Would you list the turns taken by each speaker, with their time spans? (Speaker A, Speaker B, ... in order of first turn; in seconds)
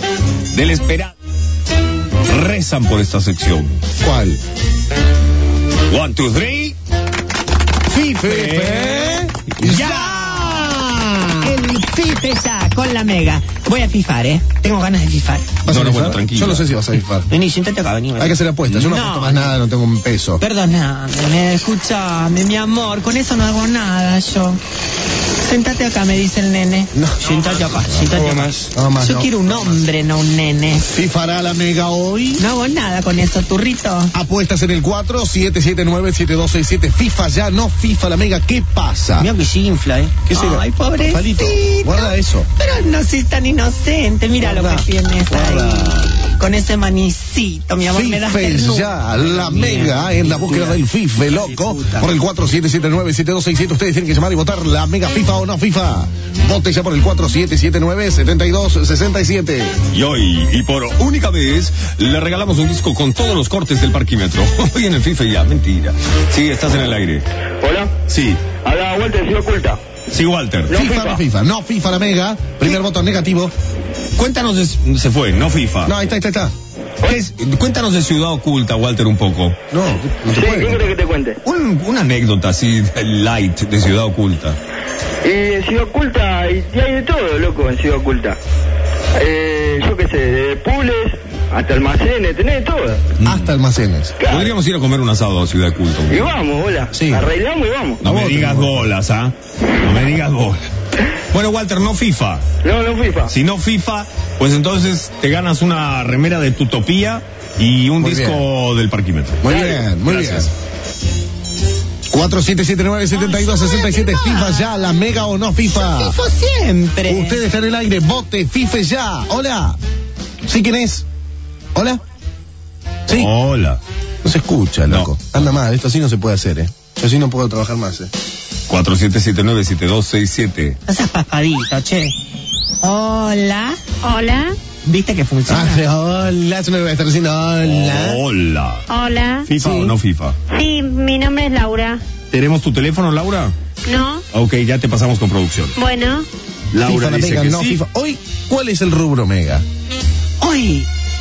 Speaker A: 0.5-1.1, 2.3-3.8, 5.9-6.8, 8.2-10.1, 15.7-16.7, 59.9-67.3, 68.1-68.4, 70.1-70.8, 74.2-75.9, 77.0-79.6, 81.4-84.6, 93.2-93.5, 94.2-96.3, 98.0-100.6, 101.3-102.5, 103.3-110.5, 123.1-123.8, 124.9-125.3, 128.7-130.8, 137.6-138.8, 139.4-140.4, 142.3-143.5, 144.3-145.8, 146.7-147.8
Speaker B: 4.0-4.4, 7.9-11.7, 15.7-17.3, 18.2-20.4, 26.9-28.2, 28.7-29.7, 30.9-32.4, 34.1-39.3, 40.3-42.5, 44.4-46.1, 47.9-59.8, 70.7-73.5, 75.8-76.5, 79.7-80.9, 93.2-94.2, 96.9-97.3, 98.0-98.9, 108.0-108.5, 109.4-110.5, 112.1-116.2, 117.1-119.8, 120.4-121.1, 121.8-122.0, 124.2-128.1, 135.5-138.2, 139.6-140.0, 146.8-149.6
Speaker C: 11.4-15.6, 17.3-19.6, 20.4-24.6, 25.4-30.9, 32.4-34.1, 39.2-52.1, 113.1-114.8, 115.7-117.4, 130.9-132.2, 132.8-133.8, 134.8-135.8, 150.4-150.9
Speaker D: 67.6-67.9, 68.6-69.8, 70.8-71.2, 80.3-81.4, 85.2-88.4, 89.2-93.0, 94.2-94.5, 96.1-98.0, 102.6-103.3
Speaker E: 134.0-134.6, 138.9-139.5, 140.5-142.0, 143.9-144.2, 145.8-146.3